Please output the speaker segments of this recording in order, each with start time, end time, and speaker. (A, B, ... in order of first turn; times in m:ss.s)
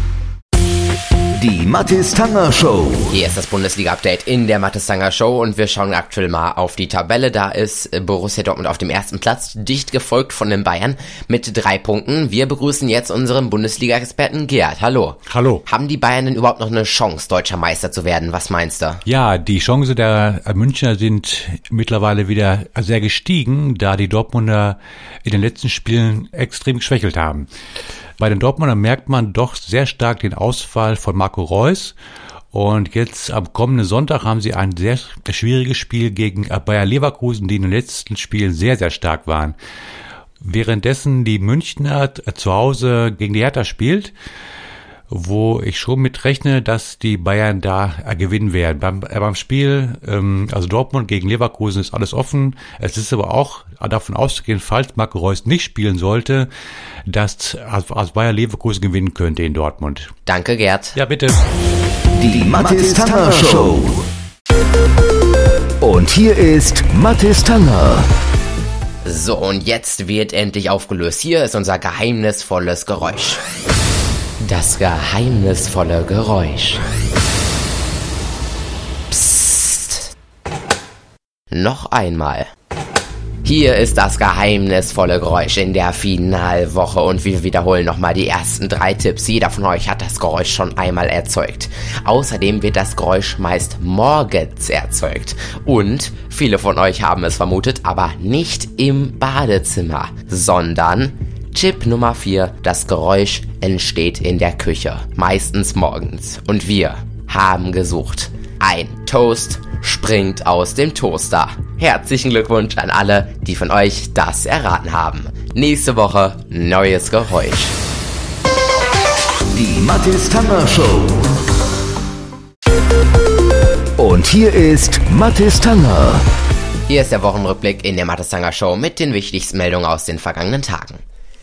0:01.4-0:03.1 A
0:03.1-0:19.0 B
0:15.3-0:15.6 C
0:19.0-0:27.5 C
0:28.2-0:32.0 C
0:32.5-0:39.6 C
0:40.4-0:44.1 C
0:45.1-0:56.5 C
0:57.1-1:00.1 C
1:00.3-1:01.0 B
1:01.0-1:01.4 C
1:02.1-1:04.0 A
1:05.8-1:08.1 A
1:09.0-1:13.4 B
1:14.4-1:16.8 B
1:19.1-1:20.1 B
1:21.5-1:22.5 B
1:23.4-1:57.8 B
1:59.5-2:01.2 A
2:04.0-2:06.3 A
2:06.9-2:11.0 B